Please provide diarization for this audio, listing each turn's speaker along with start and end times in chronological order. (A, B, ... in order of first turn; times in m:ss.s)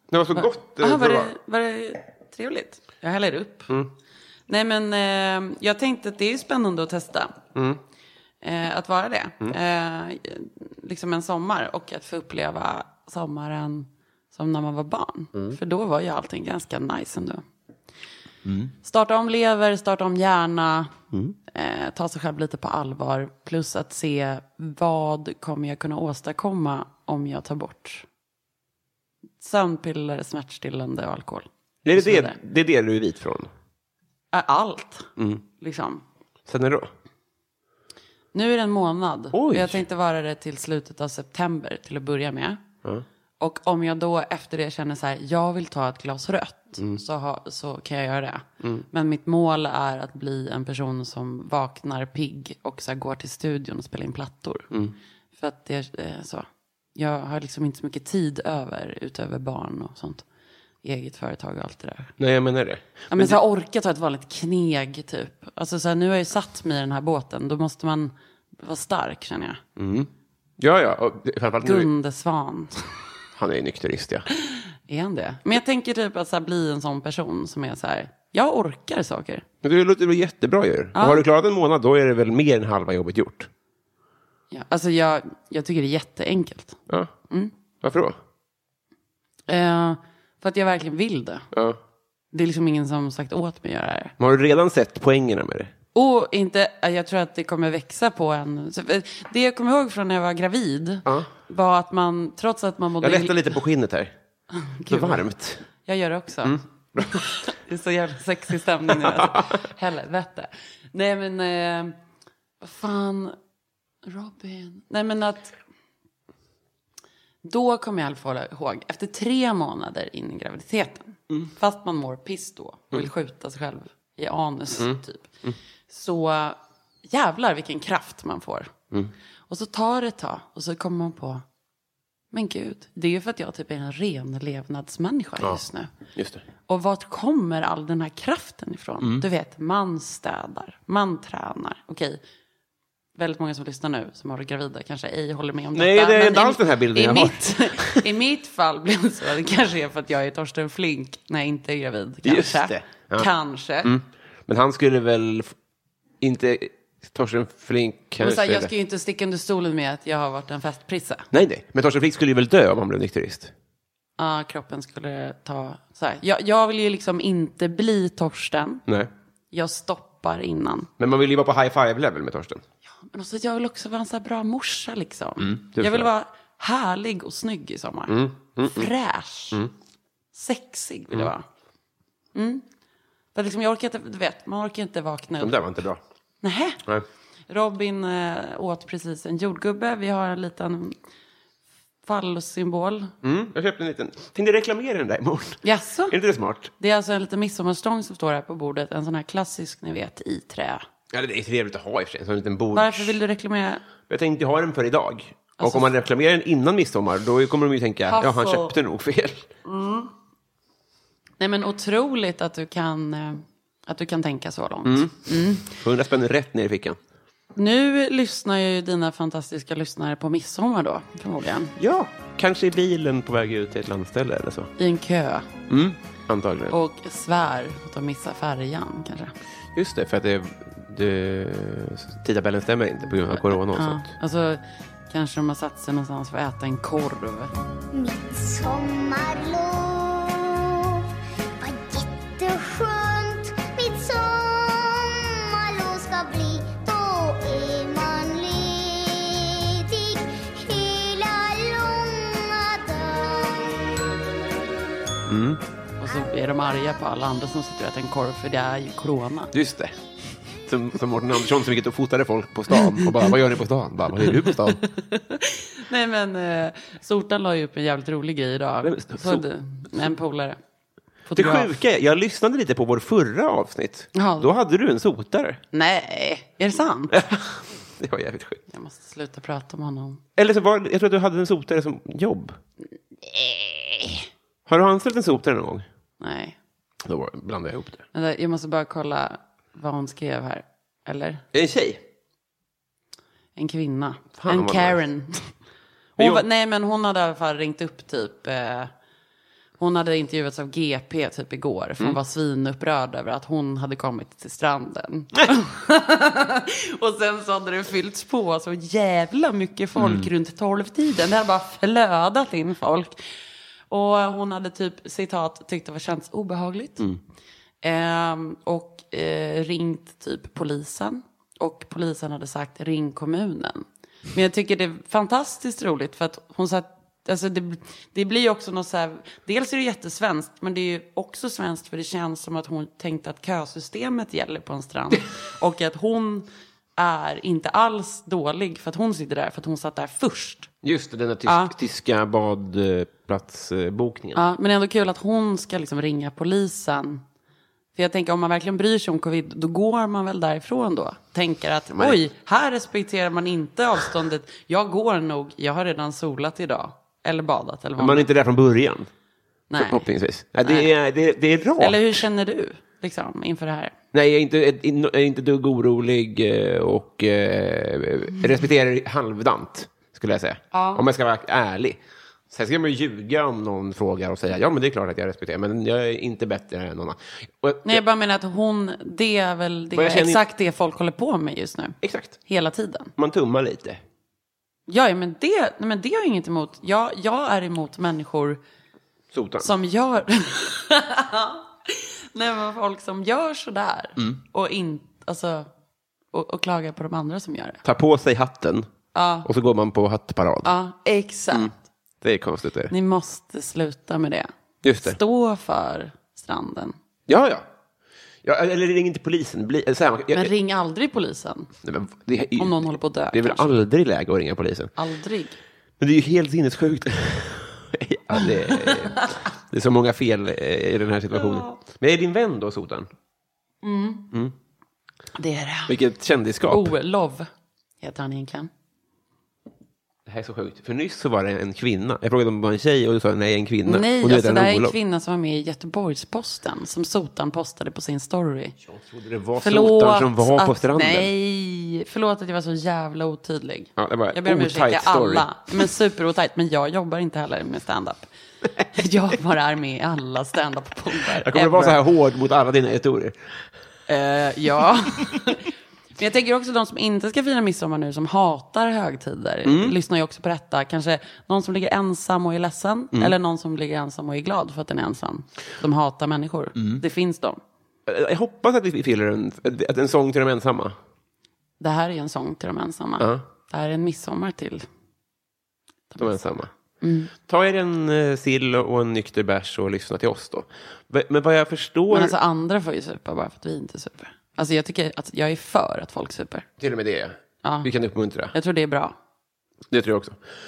0:00.1-0:01.3 A
0:00.3-0:03.7 B
0:04.5-0:07.4 B
0:07.5-0:07.8 A
0:08.4-0:17.4 B
0:18.4-0:18.7 A
0:18.8-0:20.9 B
0:21.5-0:28.0 B
0:29.4-0:32.4 B
0:31.8-0:33.5 A
0:34.3-0:36.0 B
0:35.2-0:35.4 A
0:36.5-0:36.9 A
0:38.3-0:42.6 B
0:39.3-0:39.8 A
0:43.4-0:54.7 B
0:55.4-1:00.2 B
1:00.8-1:02.1 B
1:02.2-1:03.4 A
1:03.1-1:09.6 B
1:09.8-1:11.9 A
1:11.6-1:12.8 B
1:13.4-1:14.3 A
1:14.5-1:19.4 B
1:19.6-1:23.5 A
1:20.9-1:21.2 B
1:24.5-1:27.5 B
1:27.8-1:28.2 A
1:29.5-1:31.5 B
1:31.5-1:31.8 A
1:32.3-1:34.1 B
1:34.2-1:35.7 A
1:35.9-1:43.5 B
1:41.0-1:41.3 A
1:43.0-1:44.1 A
1:44.6-1:45.2 B
1:44.9-1:45.6 A
1:45.8-1:46.6 B
1:46.4-1:47.3 A
1:47.3-1:52.0 B
1:49.0-1:49.4 A
1:52.6-1:53.4 B
1:54.0-1:55.5 B
1:57.4-2:05.3 B
2:04.8-2:05.5 A
2:05.9-2:08.7 B
2:09.5-2:11.4 B
2:12.3-2:15.9 B
2:16.1-2:16.4 A
2:16.7-2:22.2 B
2:23.2-2:33.9 B
2:25.7-2:28.0 A
2:32.2-2:33.3 A
2:33.8-2:35.5 A
2:36.2-2:38.7 A
2:38.2-2:41.3 B
2:41.3-2:43.5 A
2:44.2-2:48.8 B
2:49.5-2:50.9 B
2:51.0-2:52.6 A
2:53.1-2:59.6 B
2:55.4-2:56.1 A
2:58.1-2:58.9 A
3:00.3-3:01.4 B
3:02.3-3:02.6 B
3:03.3-3:05.6 B
3:05.4-3:06.0 A
3:06.4-3:06.8 B
3:07.5-3:11.0 B
3:12.0-3:13.1 B
3:13.2-3:16.7 A
3:15.6-3:16.2 B
3:16.8-3:20.8 B
3:21.1-3:23.2 A
3:22.7-3:23.8 B
3:24.1-3:29.5 A
3:25.6-3:25.9 B
3:28.1-3:28.7 B
3:29.6-3:30.1 B
3:31.4-3:35.7 B
3:34.8-3:37.0 A
3:37.6-3:41.7 B
3:41.8-3:44.7 A
3:44.8-3:45.5 B
3:45.7-3:46.7 A
3:46.7-3:49.3 B
3:49.7-3:54.1 A
3:53.3-3:57.5 B
3:57.9-4:01.0 C
4:01.6-4:13.8 C
4:15.2-4:15.6 A
4:16.0-4:19.5 B
4:19.5-4:20.0 A
4:20.6-4:24.8 A
4:24.4-4:30.6 B
4:28.8-4:29.4 A
4:31.3-4:31.7 B
4:31.3-4:35.6 A
4:34.1-4:34.5 B
4:35.7-4:37.2 B
4:37.1-4:38.6 A
4:38.7-4:40.2 B
4:40.4-4:42.6 A
4:43.2-4:44.3 B
4:44.7-4:45.8 A
4:46.2-4:46.6 B
4:47.0-4:48.0 A
4:48.1-4:51.4 B
4:51.5-4:52.0 A
4:53.6-4:55.5 B
4:54.4-4:55.0 A
4:56.2-4:58.9 B
4:56.2-4:56.4 A
4:59.8-5:13.2 B
5:10.0-5:10.3 A
5:13.9-5:17.0 B
5:17.8-5:36.4 B
5:37.0-5:40.7 B
5:40.8-5:44.4 A
5:41.4-5:41.7 B
5:44.3-5:47.2 B
5:47.9-5:58.3 B
5:51.9-5:52.2 A
5:58.0-5:59.1 A
5:59.7-6:00.0 B
5:59.8-6:02.2 A
6:00.6-6:00.9 B
6:01.8-6:03.9 B
6:04.1-6:18.0 A
6:10.7-6:11.0 B
6:17.8-6:23.1 B
6:19.9-6:20.4 A
6:22.0-6:22.4 A
6:23.2-6:24.0 A
6:24.9-6:28.6 B
6:29.3-6:29.7 A
6:29.6-6:35.7 B
6:36.3-6:37.8 B
6:37.8-6:38.9 A
6:39.1-6:39.5 B
6:39.4-6:40.7 A
6:40.6-6:41.7 B
6:41.5-6:42.9 A
6:42.9-6:44.5 B
6:44.8-6:45.2 A
6:45.0-6:46.9 B
6:47.3-6:47.7 A
6:48.4-6:50.5 A
6:50.3-6:51.7 B
6:51.8-6:52.8 A
6:52.6-6:53.7 B
6:53.3-6:54.9 A
6:55.0-6:55.6 B
6:56.0-7:03.1 A
6:58.4-6:59.3 B
7:01.3-7:01.7 B
7:03.8-7:04.3 B
7:05.4-7:05.9 B
7:05.9-7:06.9 A
7:06.7-7:07.5 B
7:08.0-7:08.7 B
7:10.2-7:14.9 A
7:13.8-7:18.8 B
7:18.8-7:21.3 A
7:19.6-7:28.3 B
7:24.0-7:25.5 A
7:28.9-7:32.0 B
7:31.3-7:33.4 A
7:34.1-7:35.7 B
7:36.2-7:47.6 B
7:39.6-7:40.0 A
7:46.8-7:47.0 A
7:48.1-7:51.0 A
7:51.8-7:54.8 B
7:56.1-7:56.4 B
7:56.2-7:56.7 A
7:57.0-7:57.3 B
7:57.5-8:02.3 A
8:02.1-8:06.7 B
8:06.8-8:08.5 A
8:07.6-8:07.9 B
8:08.5-8:09.1 B
8:09.9-8:10.4 A